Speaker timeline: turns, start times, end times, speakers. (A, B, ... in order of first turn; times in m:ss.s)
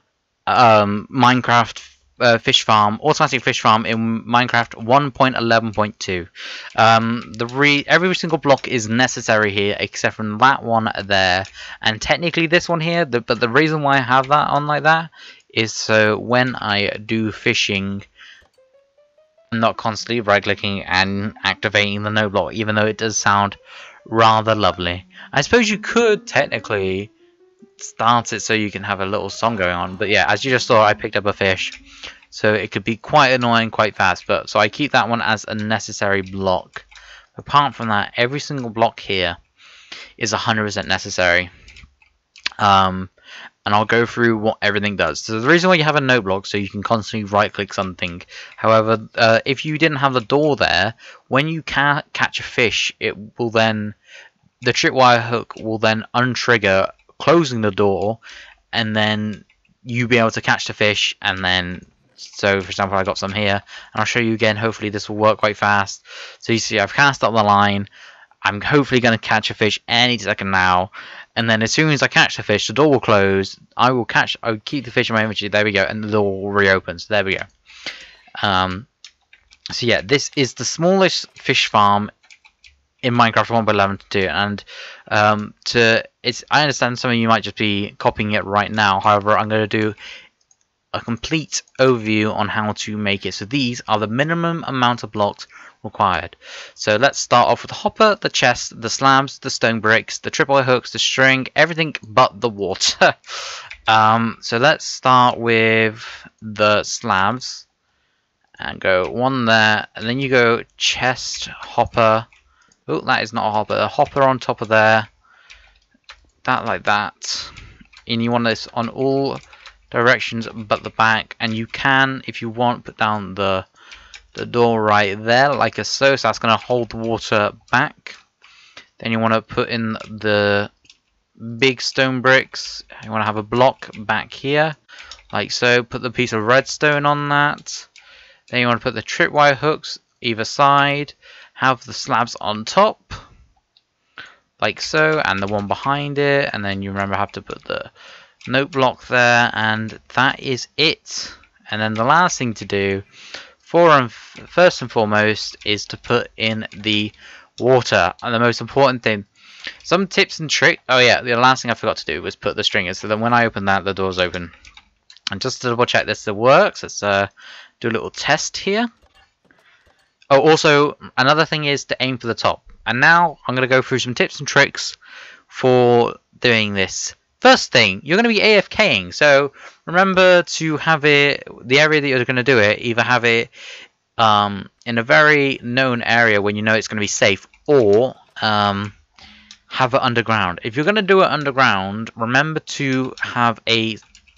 0:00.5-0:18.0 A
0:19.5-0:27.1 A
0:27.8-0:31.7 A
0:32.3-0:39.4 A
0:40.2-0:41.5 A
0:42.6-0:43.1 A
0:43.6-0:54.0 A
0:54.6-0:58.2 A
0:58.7-1:07.9 A
1:08.4-1:17.5 A
1:18.4-1:18.9 A
1:19.7-1:22.1 A
1:23.0-1:30.0 A
1:30.9-1:47.6 A
1:48.6-1:52.3 A
1:52.9-1:55.1 A
1:56.4-1:57.5 A
1:58.0-2:03.7 A
2:04.3-2:08.2 A
2:09.0-2:10.7 A
2:11.4-2:14.8 A
2:15.3-2:17.9 A
2:18.5-2:23.2 A
2:24.6-2:27.9 A
2:28.5-2:33.0 A
2:33.6-2:39.2 A
2:39.8-2:44.5 A
2:45.3-2:48.9 A
2:50.3-2:55.0 A
2:55.5-3:03.5 A
3:04.2-3:08.9 A
3:09.7-3:14.0 A